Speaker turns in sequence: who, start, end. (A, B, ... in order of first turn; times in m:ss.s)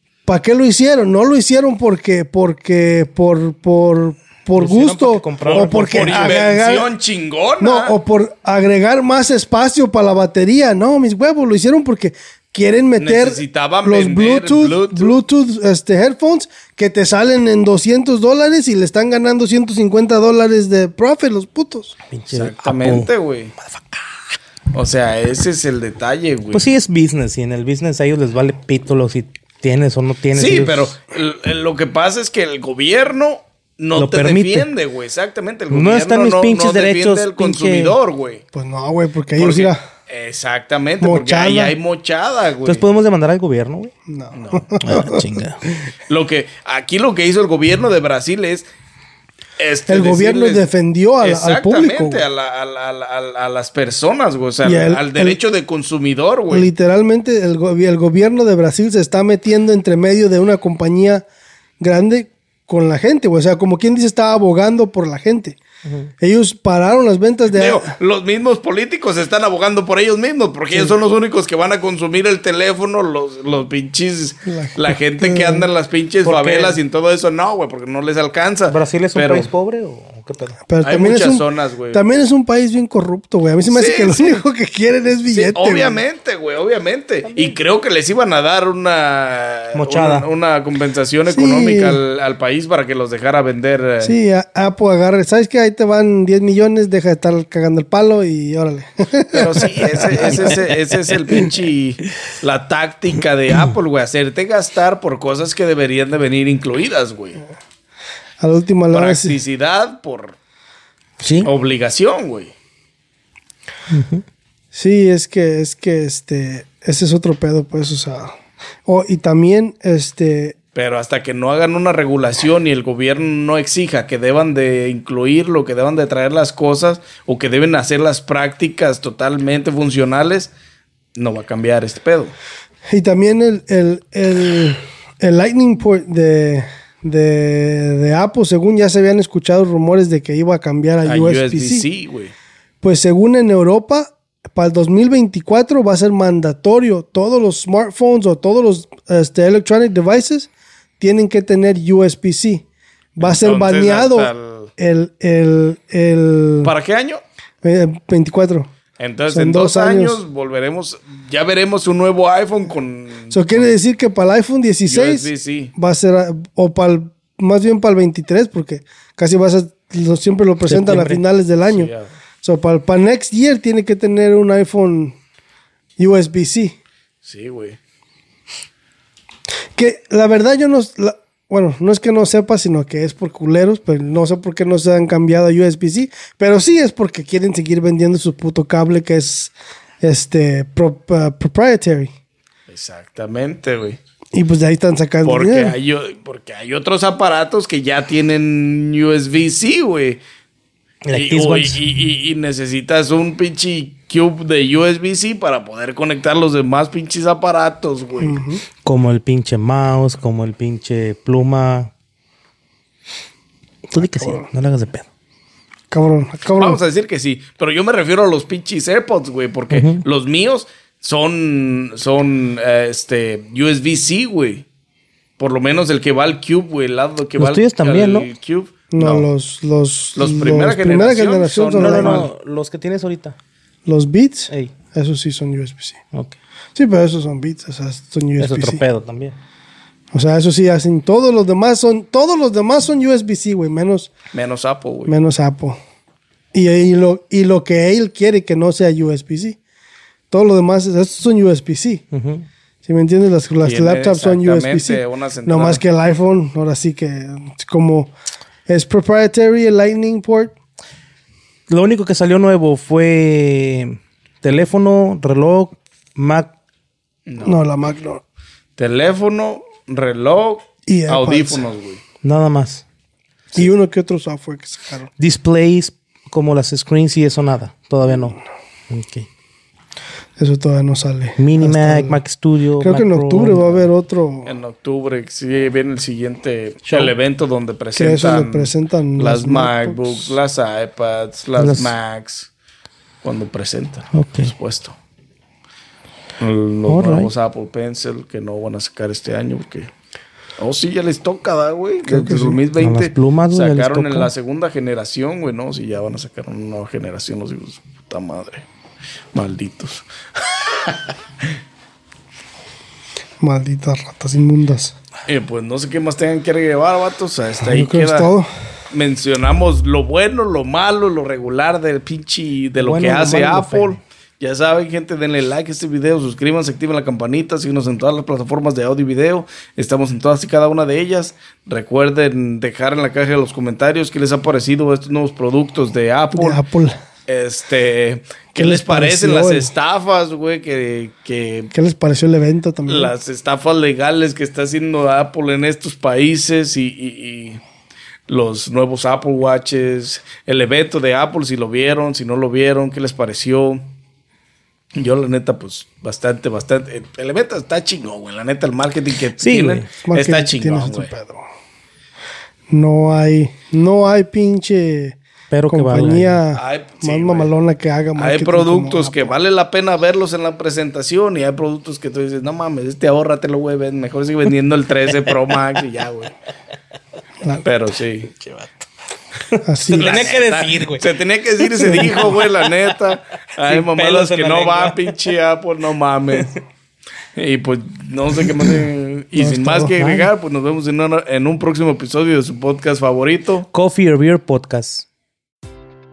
0:00.2-0:06.9 A
0:04.6-0:06.4 B
0:05.4-0:08.0 C
0:07.6-0:22.0 A
0:13.0-0:15.2 C
0:22.1-0:23.8 B
0:22.3-0:23.5 C
0:24.7-0:26.6 C
0:26.5-0:30.9 B
0:30.3-0:38.4 C
0:34.0-0:34.7 B
0:35.7-0:37.9 B
0:38.5-0:39.8 A
0:39.4-0:42.8 C
0:41.0-0:41.7 A
0:42.6-0:43.9 B
0:44.1-0:45.3 A
0:44.3-0:44.7 C
0:44.8-0:45.6 B
0:46.1-0:48.6 C
0:49.6-0:50.6 C
0:49.9-0:52.2 A
0:51.2-0:56.7 C
0:54.6-0:55.4 A
0:56.5-1:01.2 A
1:01.8-1:05.6 A
1:05.8-1:06.1 B
1:06.2-1:07.9 A
1:07.5-1:19.5 C
1:14.4-1:15.6 A
1:16.2-1:16.8 B
1:18.7-1:20.6 B
1:20.7-1:26.0 A
1:20.8-1:22.0 C
1:23.6-1:24.4 C
1:25.3-1:34.1 C
1:29.7-1:30.3 B
1:31.3-1:32.0 A
1:34.0-1:40.6 A
1:39.3-1:47.4 C
1:48.4-1:49.4 A
1:48.9-1:50.4 C
1:51.2-1:51.5 B
1:51.4-1:52.5 C
1:53.9-1:54.2 B
1:54.7-1:58.3 A
1:58.8-2:00.6 A
2:00.7-2:10.5 C
2:11.2-2:12.3 C
2:12.9-2:21.8 A
2:21.0-2:22.3 C
2:22.8-2:32.6 A
2:33.2-2:36.7 A
2:33.2-2:34.7 C
2:36.6-2:37.2 C
2:37.6-2:38.7 A
2:39.0-2:43.7 C
2:39.3-2:40.2 A
2:43.3-2:51.9 A
2:44.8-2:45.7 C
2:50.6-2:51.2 B
2:51.6-2:52.1 C
2:52.4-2:55.2 A
2:56.0-2:56.8 A
2:57.2-2:57.8 C
2:59.8-3:12.1 A
3:12.7-3:14.0 C
3:14.3-3:15.7 A
3:15.2-3:20.2 C
3:21.0-3:21.8 B
3:21.1-3:28.4 C
3:28.2-3:28.6 A
3:28.8-3:31.9 B
3:33.9-3:35.1 B
3:33.9-3:34.5 A
3:35.9-3:36.8 A
3:36.6-3:44.6 C
3:39.7-3:40.0 B
3:45.4-3:49.3 C
3:47.4-3:48.3 B
3:48.9-3:52.3 A
3:50.2-3:52.3 C
3:51.8-3:53.4 B
3:53.8-3:56.0 A
3:56.8-3:58.8 A
3:58.4-3:59.4 B
4:00.1-4:04.1 A
4:04.3-4:05.2 C
4:05.1-4:05.8 A
4:06.5-4:09.6 A
4:10.3-4:12.0 A
4:12.1-4:12.4 B
4:12.8-4:18.1 A
4:13.6-4:15.8 C
4:18.7-4:20.5 A
4:21.7-4:26.5 B
4:27.3-4:27.6 C
4:27.4-4:28.2 A
4:28.8-4:32.0 C
4:30.9-4:31.6 A
4:32.2-4:32.8 B
4:33.5-4:35.1 A
4:35.2-4:39.3 B
4:40.4-4:42.2 A
4:41.4-4:43.9 B
4:42.8-4:44.5 A
4:44.4-4:52.5 C
4:46.8-4:47.1 B
4:48.0-4:50.3 A
4:51.6-4:51.9 B
4:53.2-4:54.9 C
4:54.1-4:54.5 B
4:56.4-4:59.9 C
4:56.9-4:57.3 B
5:00.6-5:08.6 C
5:02.1-5:02.6 A
5:02.7-5:04.3 B
5:09.3-5:11.5 C
5:13.4-5:14.9 A
5:15.2-5:18.3 C
5:17.6-5:18.5 A
5:18.9-5:36.6 C
5:22.8-5:24.0 B
5:36.3-5:37.0 A
5:37.3-5:41.7 C
5:38.5-5:39.7 A
5:41.7-5:43.1 A
5:42.8-5:47.6 C
5:48.3-5:53.8 C
5:54.9-6:01.1 C
5:59.4-5:59.9 B
6:00.0-6:01.4 A
6:02.7-6:09.4 A
6:05.5-6:06.4 B
6:06.5-6:07.5 C
6:08.2-6:16.3 C
6:17.6-6:18.3 C
6:18.4-6:18.7 B
6:19.5-6:21.1 B
6:19.6-6:20.2 A
6:19.9-6:26.6 C
6:21.8-6:22.3 B
6:21.9-6:22.3 A
6:23.6-6:25.1 B
6:27.4-6:33.7 C
6:29.3-6:30.0 A
6:29.9-6:30.3 B
6:33.7-6:35.0 B